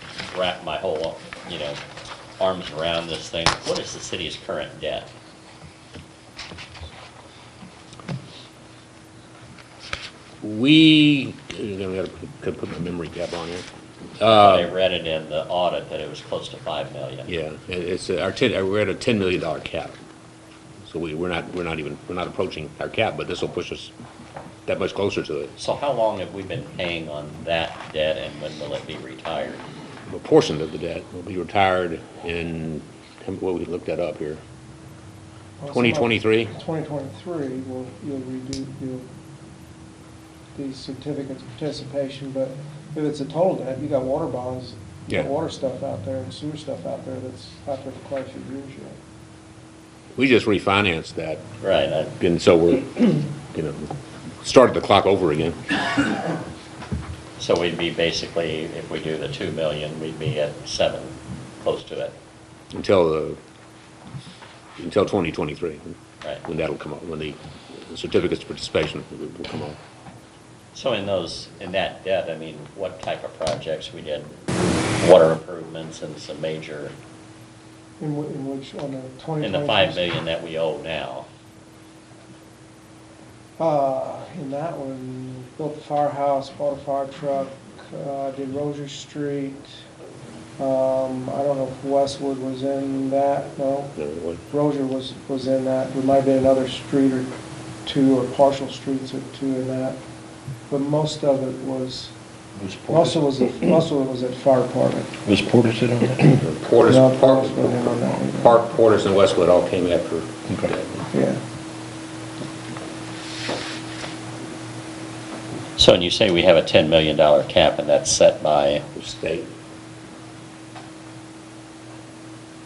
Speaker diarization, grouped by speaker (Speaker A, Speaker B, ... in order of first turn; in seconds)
Speaker A: 0.3-1.8, 2.4-5.1, 14.3-17.3, 25.6-29.6, 51.6-52.1, 57.4-62.1, 70.7-74.4, 74.9-76.9, 79.4-81.3, 115.8-118.9
Speaker B: 10.4-13.7, 14.2-14.7, 17.3-19.9, 20.8-23.9, 24.7-25.5, 30.1-34.4, 35.7-36.5, 50.1-51.5, 52.2-55.6, 62.7-63.4, 64.8-69.8, 94.0-94.4, 106.4-111.1, 119.0-119.5
Speaker C: 35.6-39.1, 40.5-49.0, 78.0-80.1, 83.6-89.8, 90.6-94.0, 94.5-100.0, 100.7-102.1, 102.9-105.2, 106.8-108.6, 111.1-111.4
Speaker D: 102.5-103.8, 105.2-106.4